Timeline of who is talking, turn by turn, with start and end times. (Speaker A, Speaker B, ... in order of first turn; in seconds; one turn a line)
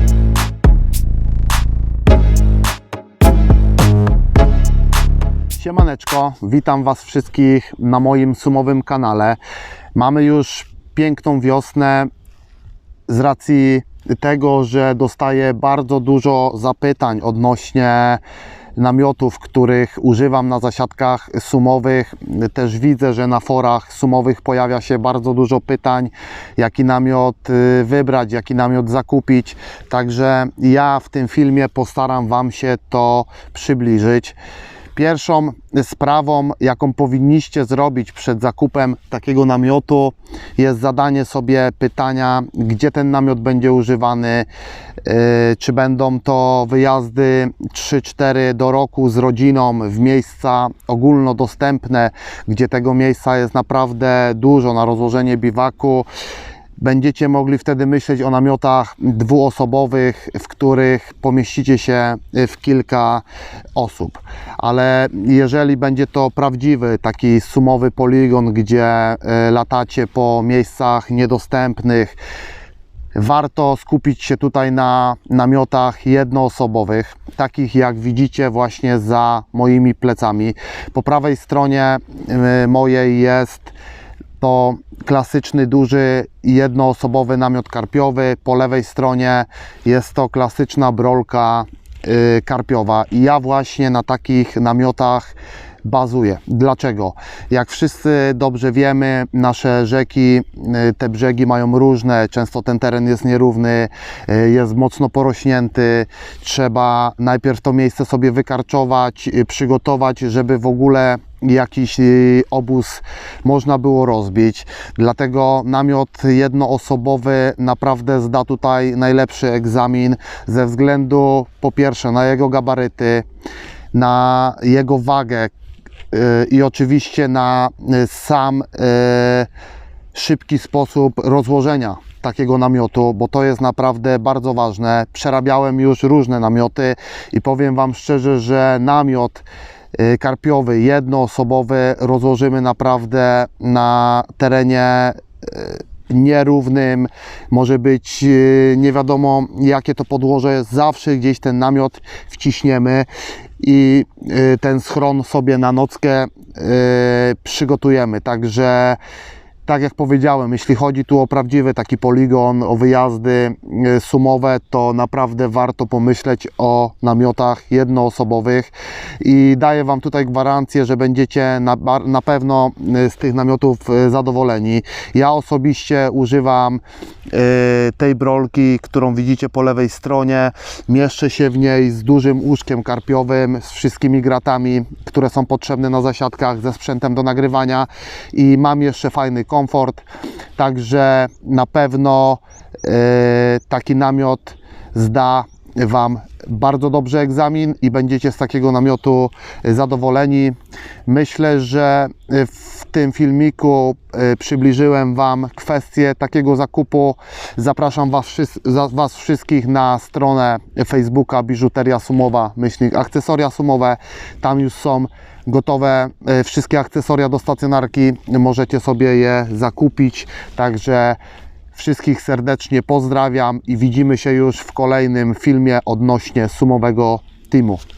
Speaker A: 5.5-9.4
Speaker A: 9.9-12.1
Speaker A: 13.1-18.2
Speaker A: 18.8-34.4
Speaker A: 34.9-44.5
Speaker A: 45.0-56.1
Speaker A: 56.8-63.2
Speaker A: 63.8-72.2
Speaker A: 73.1-83.7
Speaker A: 84.4-123.2
Speaker A: 123.9-125.5
Speaker A: 126.1-129.5
Speaker A: 130.1-159.0
Speaker A: 159.7-190.0
Speaker A: 190.6-200.5
Speaker A: 201.1-221.2
Speaker A: 221.7-227.8